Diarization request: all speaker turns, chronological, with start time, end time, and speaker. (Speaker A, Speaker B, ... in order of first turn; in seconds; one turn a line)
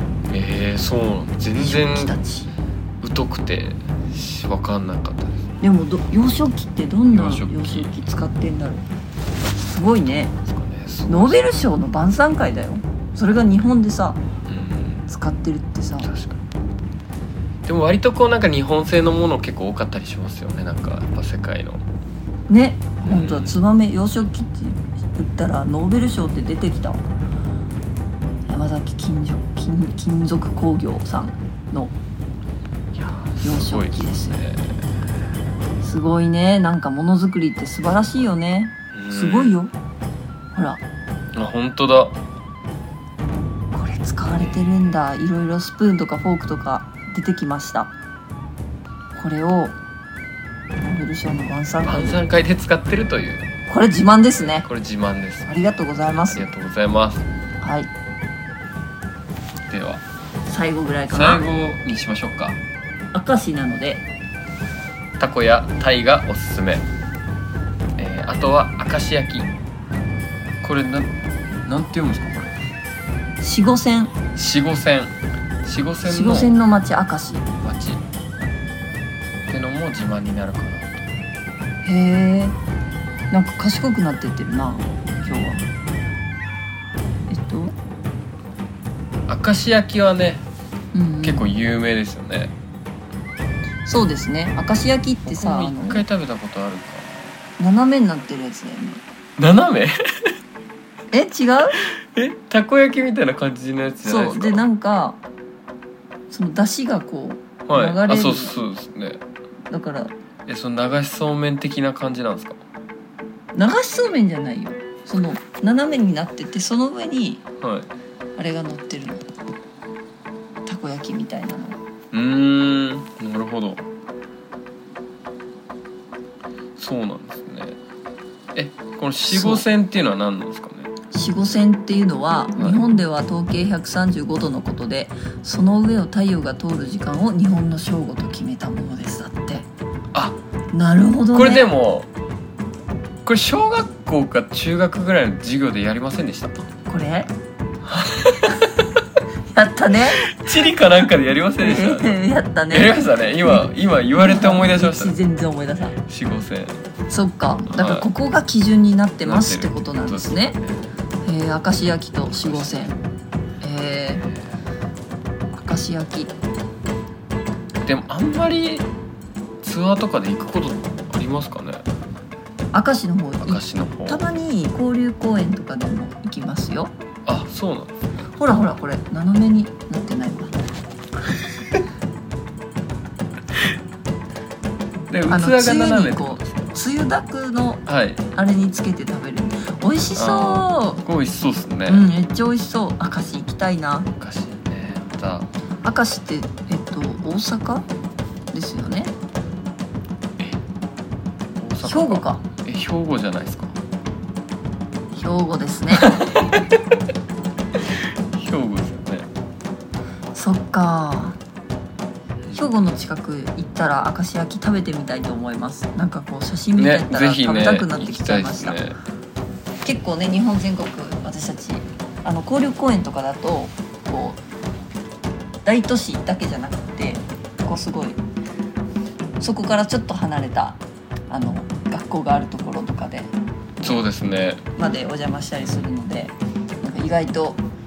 Speaker A: 0.3-2.1
Speaker B: 1.6-2.5
Speaker A: 3.0-5.5
Speaker B: 5.6-8.8
Speaker A: 7.1-7.9
Speaker B: 9.6-10.3
Speaker A: 10.4-11.7
Speaker B: 11.1-14.2
Speaker A: 14.5-15.0
Speaker B: 15.1-16.1
Speaker A: 16.0-16.4
Speaker A: 17.6-21.8
Speaker B: 22.5-27.0
Speaker A: 23.0-23.5
Speaker B: 28.5-31.9
Speaker A: 32.9-34.8
Speaker B: 33.4-34.4
Speaker B: 35.8-39.7
Speaker A: 38.9-39.6
Speaker B: 40.5-40.8
Speaker A: 41.3-42.1
Speaker B: 43.7-47.9
Speaker B: 49.1-49.7
Speaker B: 50.8-52.3
Speaker A: 51.8-53.5
Speaker B: 53.7-54.6
Speaker A: 54.6-55.5
Speaker B: 55.5-56.4
Speaker A: 56.3-57.2
Speaker B: 57.6-57.9
Speaker A: 59.7-60.0
Speaker B: 60.5-61.4
Speaker A: 61.1-62.6
Speaker B: 63.1-64.0
Speaker A: 65.2-66.8
Speaker A: 68.0-69.5
Speaker A: 70.6-71.1
Speaker A: 71.6-72.5
Speaker B: 73.4-74.1
Speaker A: 74.3-76.5
Speaker B: 76.0-77.4
Speaker A: 77.6-78.0
Speaker A: 79.5-81.0
Speaker B: 81.8-82.6
Speaker B: 83.3-85.7
Speaker B: 87.3-87.7
Speaker A: 89.3-90.4
Speaker B: 90.9-91.5
Speaker A: 91.2-92.5
Speaker B: 93.8-96.0
Speaker A: 95.3-97.2
Speaker B: 97.6-99.0
Speaker A: 99.4-100.3
Speaker B: 101.1-101.8
Speaker A: 102.1-104.6
Speaker B: 104.0-105.2
Speaker B: 106.3-108.5
Speaker A: 107.7-109.2
Speaker B: 109.7-110.1
Speaker A: 110.5-112.6
Speaker B: 113.5-117.4
Speaker A: 117.6-117.9
Speaker B: 118.3-119.3
Speaker B: 120.7-121.8
Speaker A: 122.1-123.8
Speaker A: 126.8-127.8
Speaker A: 128.5-130.9
Speaker B: 129.3-129.7
Speaker B: 131.1-139.7
Speaker B: 140.7-141.7
Speaker A: 141.3-142.1
Speaker A: 143.2-146.6
Speaker B: 146.9-147.3
Speaker A: 147.8-148.5
Speaker B: 149.5-150.7
Speaker A: 150.2-155.1
Speaker B: 151.6-153.6
Speaker B: 154.2-156.0
Speaker A: 156.1-156.8
Speaker B: 157.1-160.6
Speaker A: 157.7-158.1
Speaker A: 159.2-160.8
Speaker B: 161.2-163.0
Speaker A: 162.4-162.8
Speaker B: 163.6-164.3
Speaker B: 165.5-166.3
Speaker A: 167.8-168.8
Speaker A: 169.6-171.8
Speaker B: 172.7-176.9
Speaker A: 173.4-174.2
Speaker A: 177.2-178.2
Speaker B: 178.4-180.5
Speaker A: 185.1-186.8
Speaker B: 185.3-187.8
Speaker A: 187.9-188.2
Speaker B: 188.3-191.0
Speaker A: 190.2-192.1
Speaker B: 191.9-194.1
Speaker A: 194.2-195.5
Speaker B: 195.8-197.8
Speaker B: 198.5-199.1
Speaker A: 201.6-203.7
Speaker B: 201.8-202.4
Speaker B: 205.1-206.3
Speaker A: 208.3-209.3
Speaker B: 210.3-211.4
Speaker B: 212.5-218.8
Speaker A: 216.8-218.9
Speaker B: 219.8-224.4
Speaker B: 225.6-228.2
Speaker B: 229.4-233.3
Speaker A: 233.8-234.6
Speaker B: 234.8-237.6